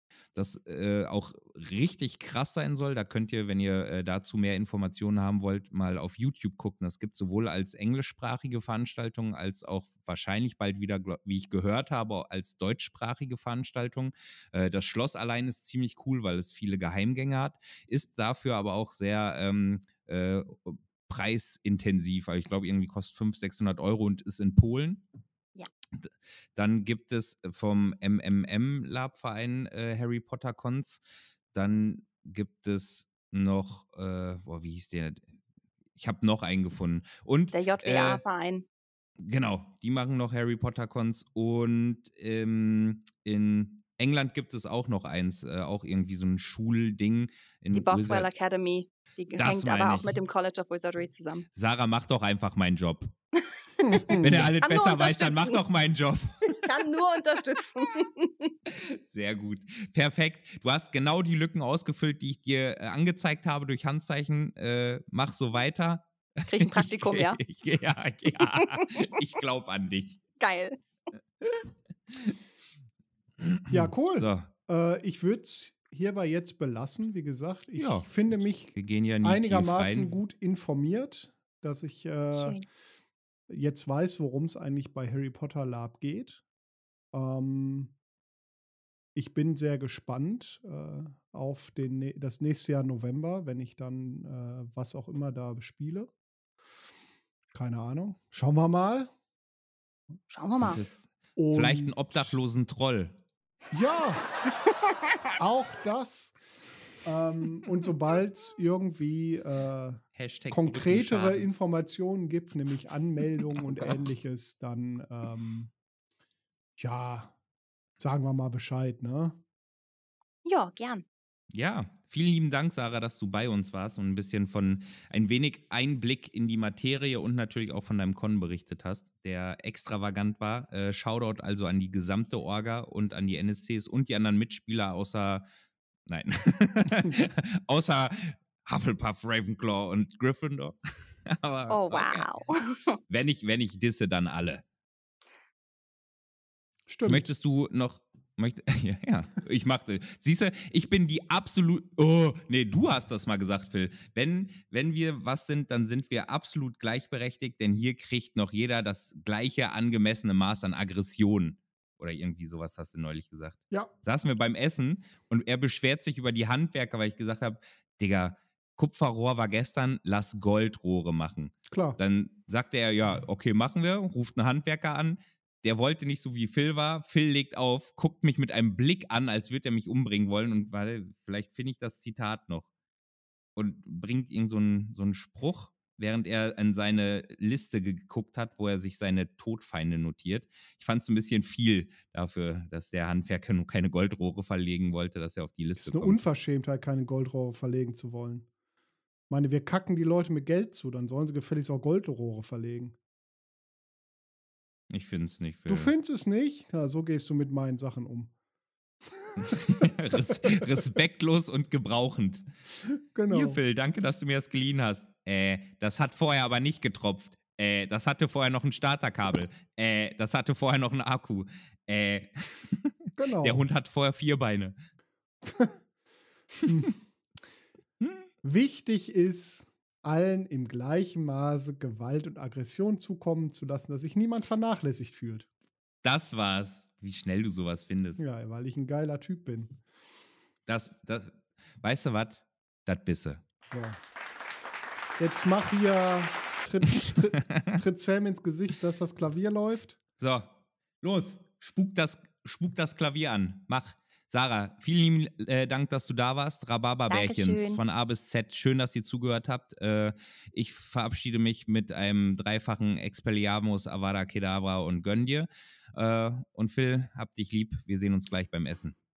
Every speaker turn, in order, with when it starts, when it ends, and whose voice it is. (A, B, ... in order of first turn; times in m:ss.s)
0:00.4-0:25.0 A
0:26.0-0:31.0 A
0:31.5-0:35.3 A
0:36.0-0:38.2 A
0:37.5-0:38.6 B
0:39.2-0:48.3 A
0:47.7-0:51.5 B
0:49.4-0:50.1 A
0:51.6-0:53.1 A
0:53.4-0:55.6 B
0:53.8-0:54.5 C
0:54.2-0:56.7 A
0:56.5-0:58.5 B
0:58.7-1:10.2 A
1:06.5-1:07.4 B
1:08.6-1:09.1 B
1:10.4-1:10.8 B
1:12.1-1:12.4 A
1:13.4-1:14.5 A
1:13.7-1:22.7 C
1:17.8-1:20.2 A
1:22.3-1:22.6 B
1:23.5-1:26.4 C
1:27.1-1:27.9 C
1:29.2-1:36.1 C
1:37.5-1:39.1 C
1:40.3-1:40.8 B
1:40.6-1:43.2 A
1:41.4-1:42.4 C
1:43.7-1:44.3 C
1:45.4-1:55.7 C
1:50.2-1:51.5 A
1:56.8-1:57.4 C
1:58.0-1:59.4 C
2:00.4-2:01.0 B
2:01.5-2:15.4 A
2:16.1-2:22.3 A
2:21.7-2:22.9 B
2:23.1-2:24.6 A
2:26.9-2:27.3 C
2:27.0-3:02.7 A
2:51.7-2:52.0 C
3:03.6-3:16.2 A
3:15.8-3:18.5 C
3:19.3-3:23.0 C
3:24.9-3:25.9 A
3:25.7-3:28.3 C
3:29.1-3:30.6 C
3:29.4-3:32.5 A
3:33.1-3:33.6 C
3:33.3-3:44.8 A
3:43.2-3:43.7 C
3:45.4-3:45.8 C
3:46.7-3:47.0 C
3:48.0-3:48.3 A
3:48.4-3:55.5 C
3:56.0-3:58.2 A
3:58.2-3:59.8 C
4:00.7-4:03.4 A
4:03.6-4:04.0 C
4:05.2-4:10.0 C
4:10.2-4:29.0 A
4:17.1-4:17.8 B